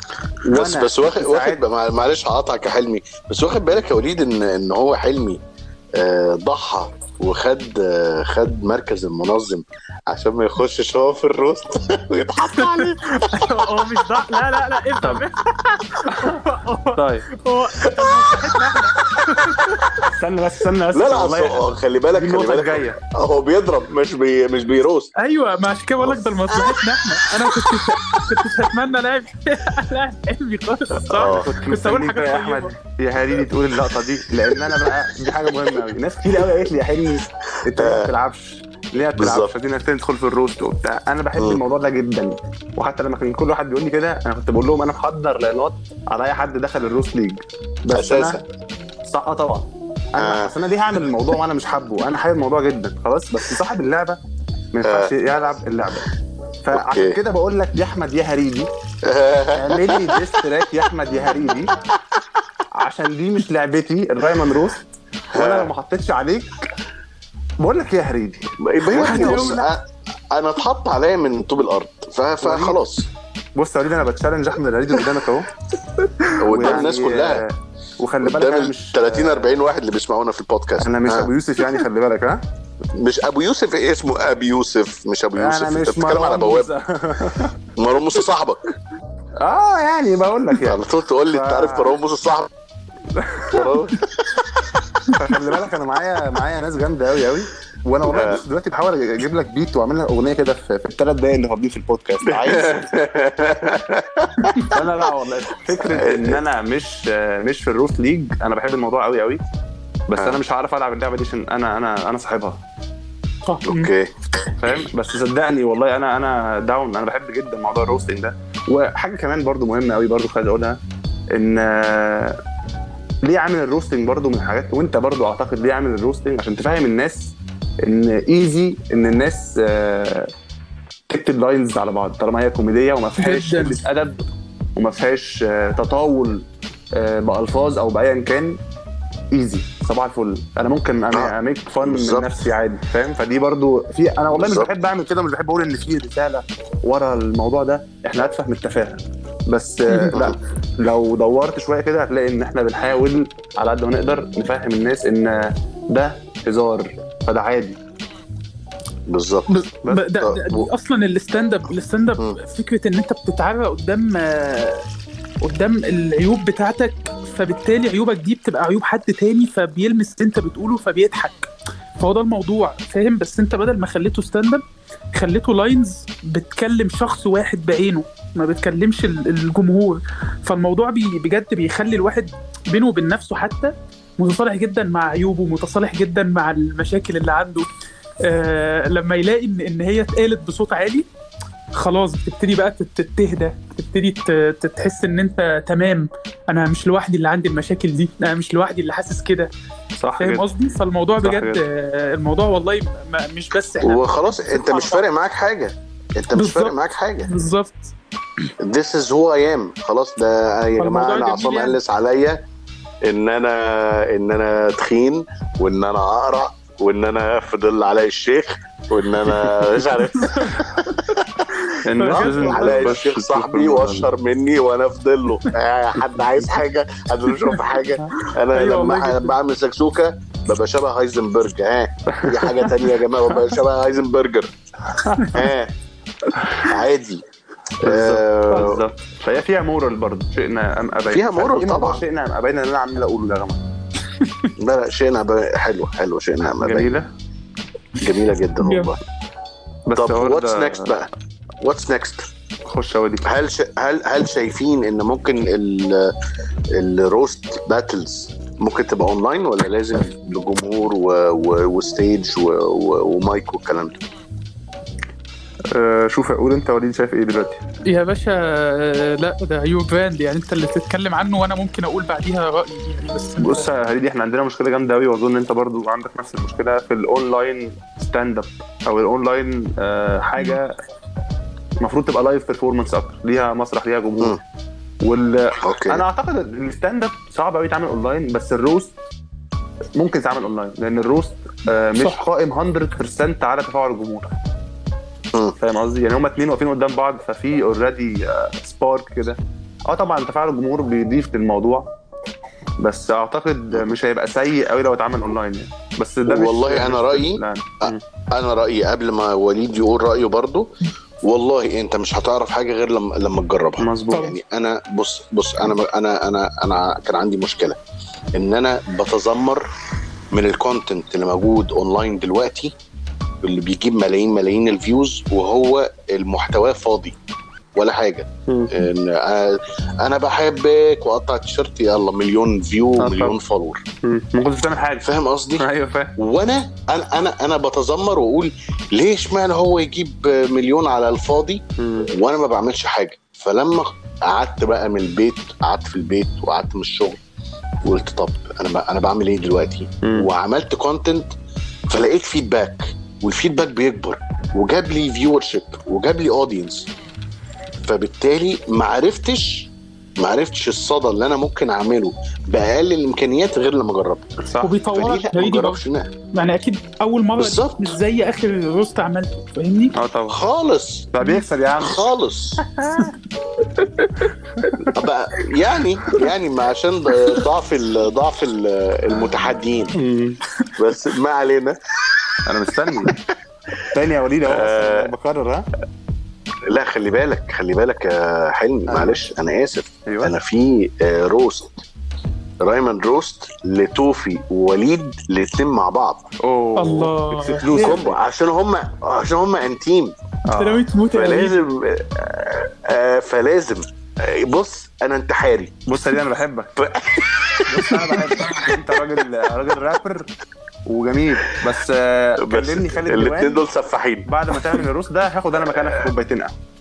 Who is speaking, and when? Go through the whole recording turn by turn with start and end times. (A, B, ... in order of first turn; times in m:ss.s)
0:00.4-0:05.4 A
0:00.5-0:01.6 B
0:06.0-0:13.8 A
0:12.5-0:15.4 C
0:15.0-0:15.2 B
0:16.0-0:19.7 C
0:16.1-0:16.4 B
0:16.9-0:17.2 B
0:17.8-0:18.4 A
0:19.2-0:20.0 A
0:20.1-0:23.0 B
0:20.9-0:25.1 A
0:25.2-0:32.7 C
0:26.0-0:28.3 A
0:30.9-0:31.5 A
0:31.1-0:48.4 B
0:34.5-0:35.7 A
0:37.7-0:38.1 A
0:39.2-0:39.5 A
0:47.9-0:48.4 A
0:49.0-0:54.2 B
0:50.2-0:50.6 A
0:54.7-0:56.1 B
0:54.8-0:55.1 A
0:56.6-0:58.7 B
0:56.7-0:57.2 A
0:59.0-1:00.4 A
0:59.5-1:01.7 B
1:02.7-1:04.8 B
1:05.3-1:05.7 A
1:05.3-1:06.7 B
1:07.6-1:09.5 B
1:08.6-1:13.1 A
1:08.9-1:09.7 C
1:12.4-1:12.8 B
1:13.6-1:15.5 B
1:16.4-1:17.4 A
1:16.5-1:19.6 B
1:18.2-1:21.3 A
1:20.8-1:22.4 B
1:22.9-1:26.7 A
1:25.4-1:27.5 B
1:27.8-1:28.7 A
1:29.4-1:32.0 B
1:30.6-1:32.5 A
1:33.1-1:33.7 B
1:33.5-1:34.7 A
1:35.1-1:42.9 B
1:38.1-1:38.4 A
1:42.2-1:44.8 A
1:44.7-1:49.4 B
1:45.8-1:46.4 A
1:50.1-1:52.6 B
1:53.4-1:53.9 C
1:53.6-1:54.8 A
1:54.6-2:00.8 B
2:01.3-2:02.4 B
2:03.2-2:10.3 B
2:11.1-2:18.6 B
2:13.2-2:13.8 C
2:19.3-2:37.8 B
2:21.1-2:22.3 A
2:24.3-2:24.7 A
2:29.9-2:30.2 C
2:39.1-2:39.6 A
2:39.5-2:44.8 C
2:40.2-2:40.7 A
2:45.4-2:51.5 C
2:52.0-2:54.6 C
2:55.1-3:07.7 C
3:08.2-3:11.0 C
3:11.7-3:19.5 C
3:20.0-3:20.5 B
3:20.2-3:25.0 C
3:21.2-3:21.6 B
3:23.8-3:27.3 A
3:26.3-3:27.9 C
3:28.6-3:32.4 A
3:30.8-3:31.8 C
3:33.0-3:41.5 A
3:41.7-3:42.9 C
3:41.8-3:44.1 B
3:42.0-3:54.5 A
3:48.5-3:49.3 C
3:52.1-3:53.4 B
3:54.9-3:55.3 B
3:55.2-3:55.7 A
3:56.5-3:57.2 A
3:57.8-3:58.8 A
3:57.8-4:03.6 B
4:01.1-4:02.0 A
4:04.2-4:04.5 C
4:04.6-4:06.9 A
4:06.6-4:07.1 B
4:08.0-4:09.0 A
4:08.6-4:08.9 C
4:09.9-4:10.9 B
4:09.9-4:12.3 A
4:12.6-4:13.3 B
4:13.2-4:16.1 A
4:16.7-4:24.0 A
4:25.7-4:27.6 B
4:27.9-4:33.7 C
4:33.4-4:40.8 B
4:41.8-4:44.4 B
4:45.0-4:49.0 B
4:45.6-4:46.0 A
4:50.0-4:54.3 B
4:55.6-5:01.9 B
5:02.8-5:08.0 B
5:06.2-5:10.7 A
5:11.2-5:17.8 A
5:13.8-5:14.3 B
5:14.1-5:14.4 C
5:18.3-5:19.7 A
5:20.3-5:22.7 A
5:23.4-5:27.2 A
5:27.8-5:33.8 A
5:28.5-5:28.8 B
5:33.0-5:33.4 B
5:34.0-5:36.1 B
5:35.0-5:35.6 A
5:36.2-5:47.2 A
5:41.8-5:42.1 B
5:47.8-5:51.3 A
5:50.0-5:50.3 B
5:51.9-5:56.9 A
5:57.8-6:04.4 A
6:04.4-6:04.7 B
6:04.6-6:10.0 C
6:04.9-6:06.1 A
6:07.4-6:07.9 A
6:09.9-6:10.4 B
6:10.3-6:11.1 A
6:11.1-6:12.0 B
6:11.8-6:12.6 A
6:12.6-6:13.1 B
6:13.8-6:14.3 C
6:14.8-6:19.9 A
6:20.0-6:20.4 B
6:20.8-6:21.8 A
6:22.4-6:23.1 B
6:23.9-6:25.7 B
6:24.4-6:25.1 A
6:26.7-6:31.8 A
6:28.9-6:29.2 B
6:30.0-6:30.3 B
6:32.6-6:36.3 A
6:36.4-6:38.2 B
6:36.8-6:38.0 C
6:37.7-6:40.1 A
6:40.5-6:40.9 B
6:40.6-6:41.6 C
6:41.1-6:45.7 A
6:45.9-6:46.8 B
6:46.8-6:48.7 A
6:47.7-6:50.3 B
6:50.8-6:53.6 B
6:52.4-6:54.3 A
6:54.2-6:56.6 B
6:55.8-6:56.1 A